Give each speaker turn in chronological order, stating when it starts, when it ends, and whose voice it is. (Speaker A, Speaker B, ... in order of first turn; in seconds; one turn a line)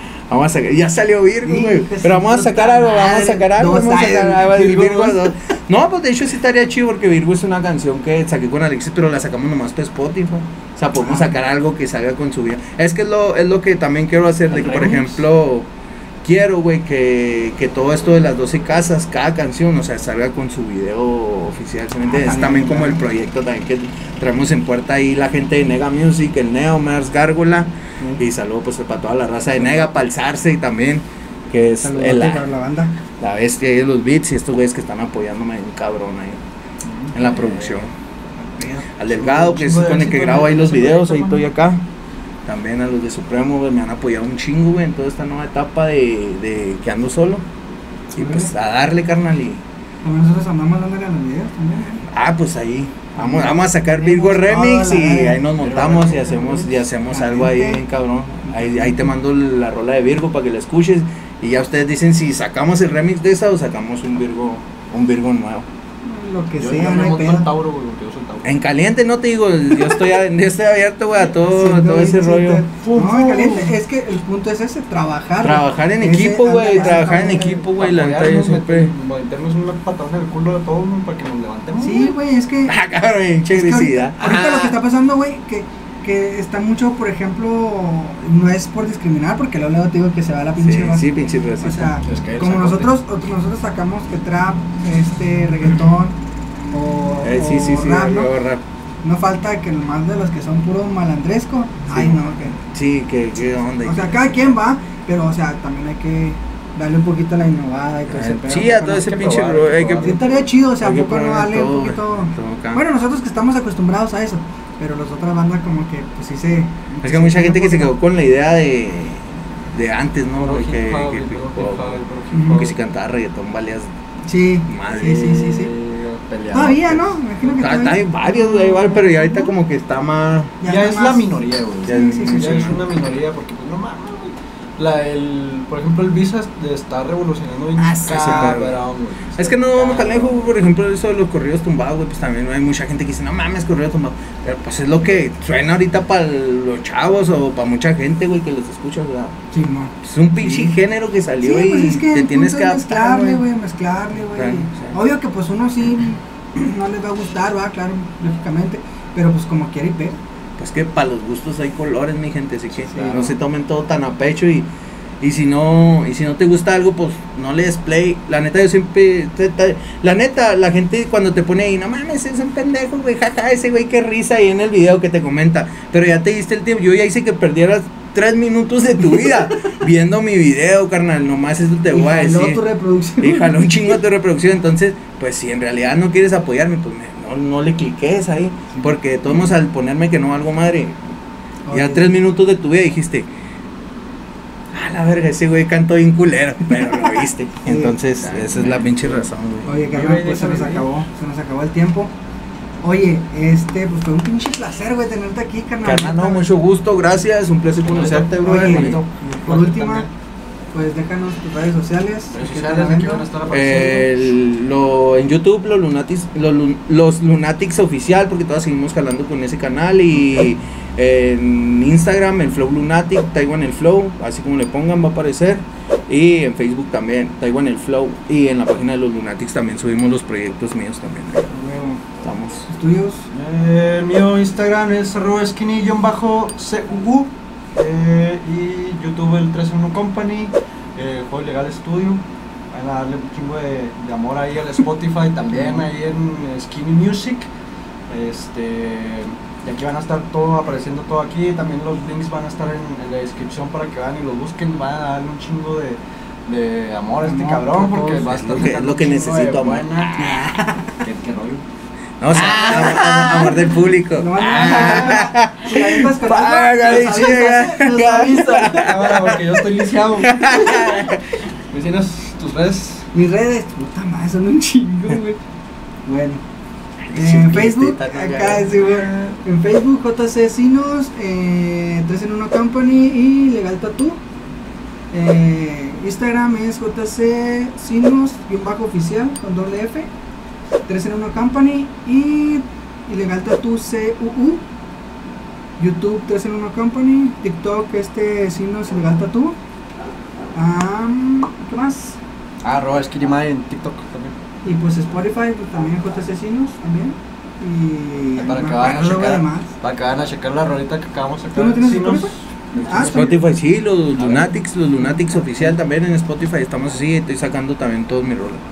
Speaker A: 0.3-15.7
Speaker B: 1.4-5.3
Speaker B: 11.0-11.4
Speaker C: 14.5-15.2
Speaker A: 16.2-32.5
Speaker B: 22.1-23.0
Speaker C: 29.6-29.8
Speaker B: 31.8-32.9
Speaker A: 33.2-36.4
Speaker A: 37.1-37.9
Speaker C: 37.2-37.8
Speaker B: 38.4-38.9
Speaker A: 39.0-41.8
Speaker C: 39.1-41.4
Speaker A: 42.5-47.5
Speaker B: 48.1-48.5
Speaker A: 48.1-49.6
Speaker B: 50.0-52.0
Speaker A: 52.0-65.7
Speaker B: 53.2-55.4
Speaker C: 55.6-56.9
Speaker B: 57.1-57.8
Speaker B: 58.5-59.1
Speaker B: 66.0-67.5
Speaker C: 66.6-68.5
Speaker A: 68.4-72.7
Speaker B: 71.4-77.6
Speaker C: 72.8-73.8
Speaker A: 75.4-78.9
Speaker C: 77.5-82.2
Speaker B: 81.8-82.8
Speaker A: 82.7-84.7
Speaker B: 83.5-96.2
Speaker A: 90.6-92.0
Speaker C: 92.1-92.9
Speaker B: 96.7-98.3
Speaker A: 97.2-98.6
Speaker B: 99.0-102.6
Speaker A: 101.9-104.6
Speaker B: 103.8-109.2
Speaker A: 108.1-110.2
Speaker C: 108.8-110.4
Speaker B: 110.0-118.0
Speaker A: 110.8-112.8
Speaker A: 117.0-123.9
Speaker C: 120.3-122.8
Speaker B: 122.3-122.6
Speaker B: 124.3-125.7
Speaker A: 124.7-125.2
Speaker C: 124.9-127.2
Speaker B: 126.5-129.5
Speaker A: 127.4-130.6
Speaker B: 130.6-132.8
Speaker C: 130.7-140.6
Speaker A: 131.8-132.8
Speaker B: 137.8-138.6
Speaker A: 138.0-138.8
Speaker A: 139.4-153.4
Speaker B: 149.5-150.8
Speaker B: 151.4-160.2
Speaker A: 154.3-155.0
Speaker A: 160.6-164.7
Speaker B: 162.9-163.3
Speaker A: 165.2-182.6
Speaker B: 181.9-184.0
Speaker A: 183.2-191.0
Speaker B: 191.7-192.1
Speaker A: 191.7-193.3
Speaker A: 194.7-199.8
Speaker B: 196.7-198.0
Speaker C: 198.2-200.9
Speaker B: 199.7-202.1
Speaker B: 202.8-206.5
Speaker A: 205.8-209.0
Speaker C: 207.8-210.1
Speaker B: 208.3-210.1
Speaker B: 210.7-213.2
Speaker C: 212.3-214.1
Speaker A: 213.5-231.5
Speaker B: 231.5-232.0
Speaker A: 232.2-232.7
Speaker B: 232.7-233.3
Speaker C: 233.3-247.5
Speaker B: 245.5-245.9
Speaker C: 248.1-260.1
Speaker B: 257.2-258.3
Speaker A: 258.3-260.6
Speaker B: 260.2-261.0
Speaker C: 261.0-261.6
Speaker A: 262.2-269.4
Speaker C: 262.4-263.5
Speaker B: 262.4-263.6
Speaker B: 264.1-269.2
Speaker C: 264.4-265.2
Speaker C: 268.8-271.0
Speaker A: 270.2-271.4
Speaker C: 271.7-273.1
Speaker B: 273.1-275.4
Speaker B: 276.1-276.4
Speaker A: 277.1-278.9
Speaker B: 277.1-284.2
Speaker C: 278.9-279.3
Speaker B: 285.1-290.1
Speaker B: 290.9-294.6
Speaker B: 295.8-299.6
Speaker B: 300.5-302.2
Speaker C: 302.6-304.4
Speaker B: 304.6-309.7
Speaker C: 308.4-313.5
Speaker B: 311.6-313.3
Speaker A: 313.0-318.6
Speaker C: 314.1-314.6
Speaker B: 315.0-315.8